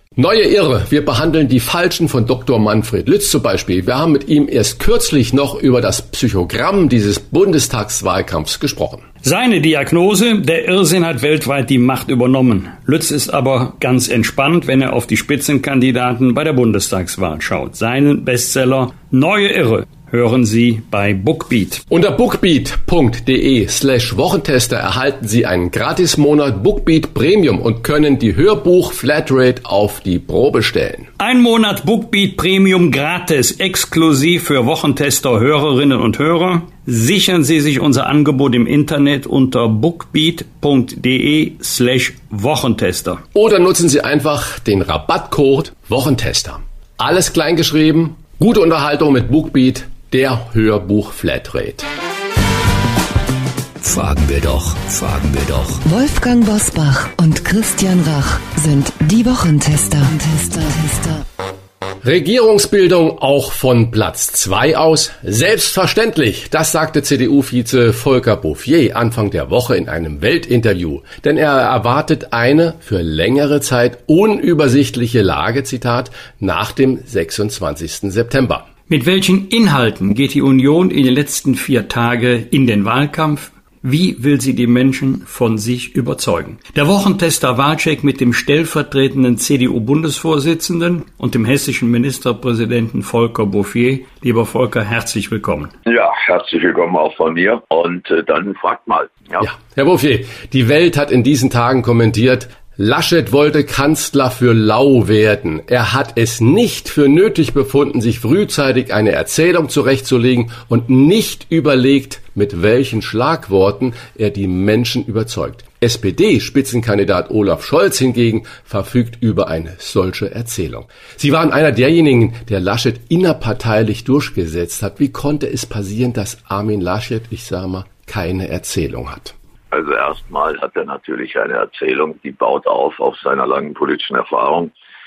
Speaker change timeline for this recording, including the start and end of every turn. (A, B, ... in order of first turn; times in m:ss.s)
0:00.2-0:09.0 A
0:09.2-0:21.8 B
0:21.9-0:31.1 A
0:31.2-0:43.2 B
0:43.4-0:51.9 A
0:53.8-0:55.8 C
0:55.8-1:01.2 D
1:02.0-1:18.7 A
1:18.9-1:35.7 B
1:35.9-1:39.4 E
1:39.4-2:09.4 A
2:09.7-2:14.7 E